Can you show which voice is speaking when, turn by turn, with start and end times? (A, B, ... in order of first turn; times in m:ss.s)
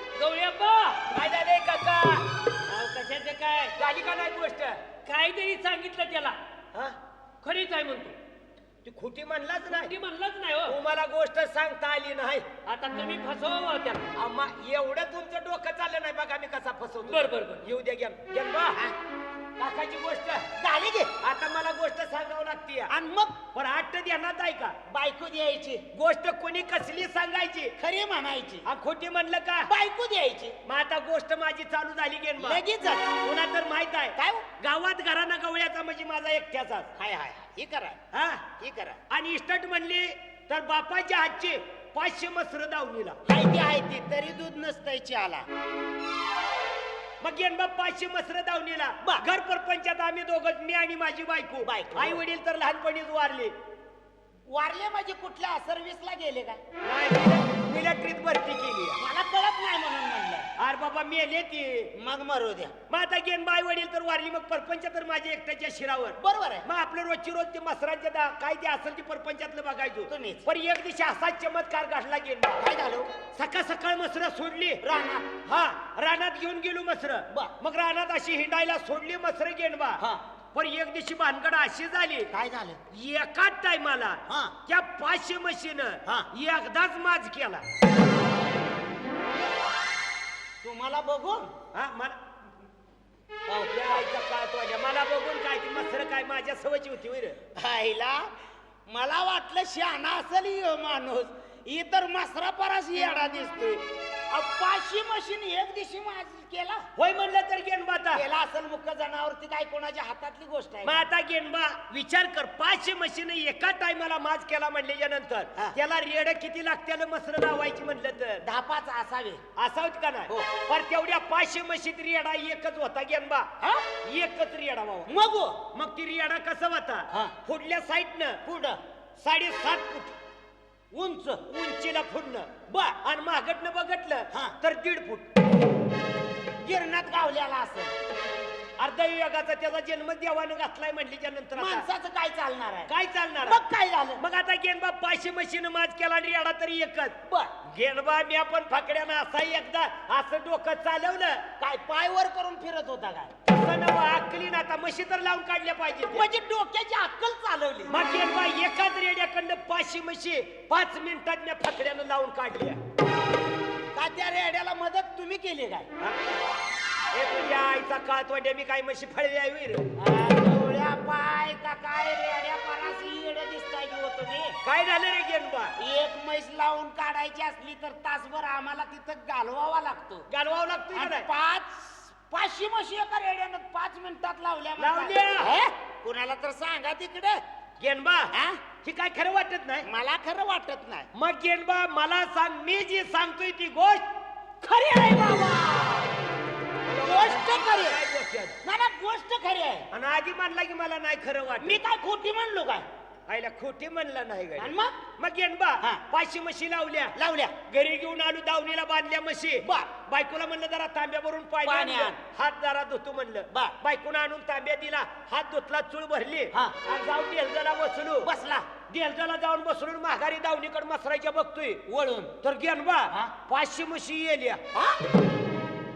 0:00.2-0:01.1 A
0:01.1-0:02.3 B
0:02.6-0:03.8 A
0:03.8-0:05.0 B
0:05.0-0:06.4 A
0:07.4-0:08.2 A
0:08.8-0:09.9 B
0:09.7-0:10.8 A
0:10.6-0:12.6 B
0:12.6-0:14.1 A
0:14.1-0:18.8 B
0:17.1-0:17.6 A
0:19.6-0:20.4 B
0:20.6-0:21.1 C
0:21.2-0:22.9 B
0:22.9-0:23.4 C
0:23.5-0:24.8 B
0:24.9-0:25.8 C
0:25.9-0:27.7 B
0:27.8-0:28.7 C
0:28.6-0:29.7 B
0:29.7-0:30.6 C
0:30.6-0:32.6 B
0:32.4-0:33.1 C
0:33.2-0:36.9 B
0:34.2-0:34.4 C
0:37.0-0:38.0 C
0:38.1-0:38.5 B
0:38.6-0:39.0 C
0:39.1-0:43.2 B
0:43.3-0:45.5 C
0:47.2-0:53.5 B
0:51.6-0:52.2 C
0:54.5-0:56.6 C
0:56.8-0:59.0 B
0:59.0-1:00.5 C
1:00.6-1:01.9 B
1:02.0-1:02.7 C
1:02.9-1:12.6 B
1:06.2-1:06.7 C
1:10.1-1:10.5 C
1:12.6-1:13.1 C
1:13.2-1:14.8 B
1:14.8-1:15.3 C
1:15.4-1:22.3 B
1:22.3-1:22.8 C
1:22.9-1:27.6 B
1:24.3-1:24.5 C
1:30.6-1:31.5 C
1:31.7-1:32.2 B
1:33.5-1:34.0 C
1:33.7-1:37.4 B
1:37.6-1:38.3 C
1:38.9-1:46.8 C
1:47.0-1:48.2 B
1:48.1-1:51.0 C
1:50.8-1:58.4 B
1:58.4-1:59.4 C
1:59.6-2:03.5 B
2:03.6-2:03.9 C
2:04.0-2:05.1 B
2:05.1-2:05.6 C
2:05.7-2:08.4 B
2:08.5-2:08.8 C
2:09.2-2:10.2 B
2:10.9-2:11.4 C
2:11.3-2:12.5 B
2:12.7-2:13.0 C
2:13.0-2:15.3 B
2:16.6-2:17.9 C
2:18.8-2:21.9 B
2:21.6-2:24.2 C
2:22.9-2:23.6 B
2:24.2-2:31.5 B
2:31.6-2:33.3 C
2:33.4-2:36.3 B
2:36.1-2:38.0 C
2:37.9-2:42.8 B
2:43.9-2:45.9 C
2:47.1-2:49.9 B
2:50.0-2:54.6 C
2:54.6-2:55.7 B
2:55.8-3:00.3 C
3:00.3-3:01.3 B
3:00.9-3:07.4 C
3:04.8-3:05.6 B
3:07.8-3:08.3 B
3:08.3-3:08.6 C
3:08.8-3:09.9 B
3:09.8-3:11.1 C
3:11.1-3:14.0 B
3:14.6-3:16.1 C
3:16.8-3:18.6 B
3:17.0-3:18.0 C
3:18.6-3:19.9 C
3:19.9-3:21.8 B
3:21.6-3:22.9 C
3:23.3-3:38.3 B
3:24.6-3:25.0 C
3:27.2-3:27.6 C
3:29.6-3:29.9 C
3:31.6-3:32.2 C
3:38.2-3:38.7 C
3:38.9-3:41.8 B
3:41.9-3:42.3 C
3:42.4-3:44.6 B